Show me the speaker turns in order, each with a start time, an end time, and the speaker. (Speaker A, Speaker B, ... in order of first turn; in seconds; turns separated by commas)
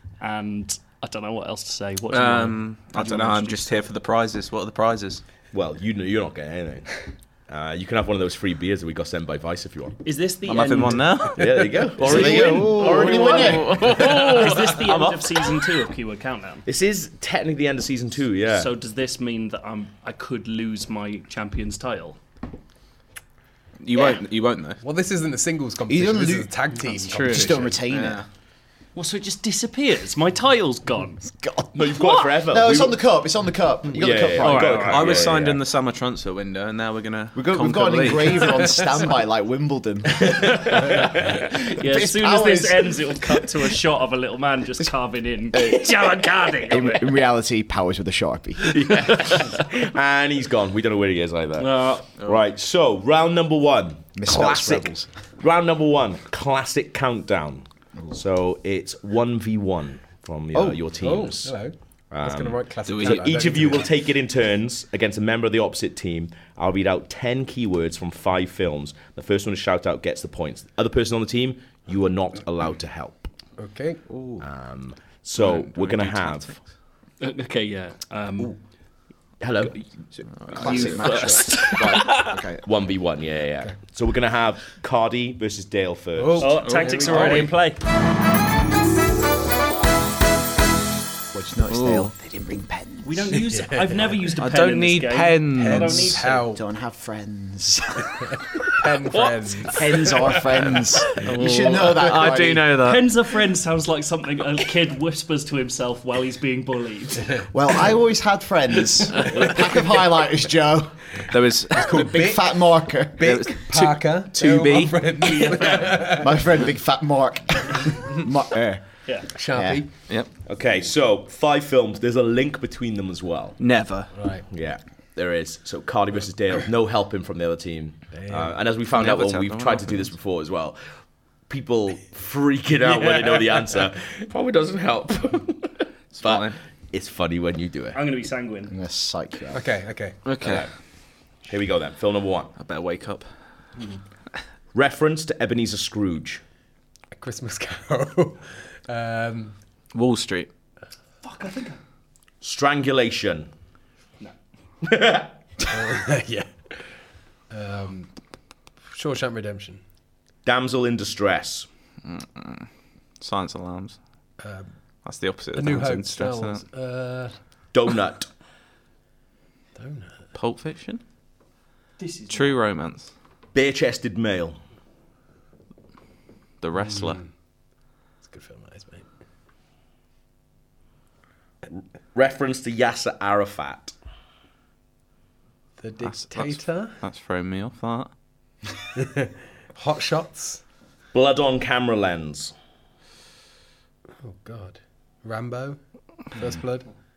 Speaker A: 0.2-3.6, Speaker B: 2.1-5.2, Speaker C: 5.5-10.0, Speaker A: 10.0-11.2, Speaker B: 10.5-15.5, Speaker C: 11.3-13.6, Speaker A: 12.0-16.6, Speaker D: 12.0-13.9, Speaker E: 14.1-14.6, Speaker C: 16.7-18.7, Speaker A: 18.5-22.2, Speaker B: 23.8-24.8, Speaker E: 24.8-27.8, Speaker D: 25.9-28.2, Speaker B: 27.0-28.3, Speaker A: 28.9-31.2, Speaker D: 31.4-35.6, Speaker C: 31.8-33.0, Speaker A: 32.0-32.3, Speaker C: 34.0-35.4, Speaker A: 34.4-35.3, Speaker B: 34.9-39.0, Speaker D: 37.4-40.7, Speaker C: 40.2-41.1, Speaker A: 41.8-47.2, Speaker D: 41.8-43.3, Speaker D: 45.5-46.1, Speaker D: 46.7-49.1, Speaker C: 48.7-61.5, Speaker A: 51.6-52.1, Speaker D: 54.2-55.1, Speaker D: 60.5-60.8, Speaker E: 61.0-63.9, Speaker C: 62.1-73.3, Speaker B: 62.9-63.6, Speaker E: 73.6-74.0, Speaker D: 74.1-74.4, Speaker C: 74.4-76.5, Speaker B: 75.4-76.6, Speaker A: 77.2-78.6, Speaker C: 79.4-79.7, Speaker D: 80.2-82.6, Speaker A: 80.5-82.2, Speaker B: 80.6-81.4, Speaker C: 82.6-86.7, Speaker E: 86.2-87.5, Speaker A: 86.4-87.8, Speaker B: 86.7-87.5, Speaker D: 91.3-93.4, Speaker B: 91.7-92.1, Speaker A: 93.0-96.4, Speaker E: 93.3-94.3, Speaker B: 94.4-96.2, Speaker E: 95.5-96.6, Speaker D: 96.5-98.1, Speaker E: 98.7-100.6, Speaker D: 99.7-102.8, Speaker B: 101.2-103.2, Speaker A: 102.8-107.5, Speaker D: 107.5-111.2, Speaker B: 111.3-112.3, Speaker E: 111.7-116.4, Speaker D: 111.8-113.6, Speaker B: 113.2-116.0, Speaker D: 116.0-119.8, Speaker E: 119.3-119.9, Speaker C: 120.5-123.6, Speaker B: 123.6-124.1, Speaker E: 124.1-124.4, Speaker C: 124.5-130.8, Speaker E: 128.1-128.6, Speaker B: 128.9-130.1, Speaker C: 131.5-138.0, Speaker B: 136.1-136.6, Speaker A: 137.9-138.8, Speaker D: 138.7-139.6, Speaker E: 139.5-140.2, Speaker B: 140.2-140.7, Speaker C: 140.4-140.7, Speaker C: 141.5-142.5, Speaker B: 142.6-143.3, Speaker C: 144.7-146.4, Speaker E: 147.1-149.5, Speaker B: 149.9-150.5, Speaker A: 151.2-151.8, Speaker C: 152.4-153.5, Speaker C: 154.8-155.3, Speaker E: 155.7-156.7, Speaker E: 157.5-158.1, Speaker E: 158.9-159.8, Speaker C: 160.4-161.7, Speaker B: 162.1-162.7, Speaker B: 163.2-164.0, Speaker E: 164.4-164.7, Speaker B: 165.0-166.6, Speaker E: 165.5-167.3, Speaker C: 167.7-168.3, Speaker E: 169.8-170.2, Speaker B: 170.3-171.0, Speaker A: 172.0-172.6, Speaker B: 172.3-173.1, Speaker C: 173.5-174.6, Speaker B: 176.6-177.2, Speaker E: 176.8-177.3, Speaker E: 178.2-179.1, Speaker C: 182.1-183.9, Speaker E: 185.8-187.0, Speaker B: 186.0-188.1, Speaker E: 189.0-190.6, Speaker C: 191.1-192.5, Speaker E: 194.2-196.9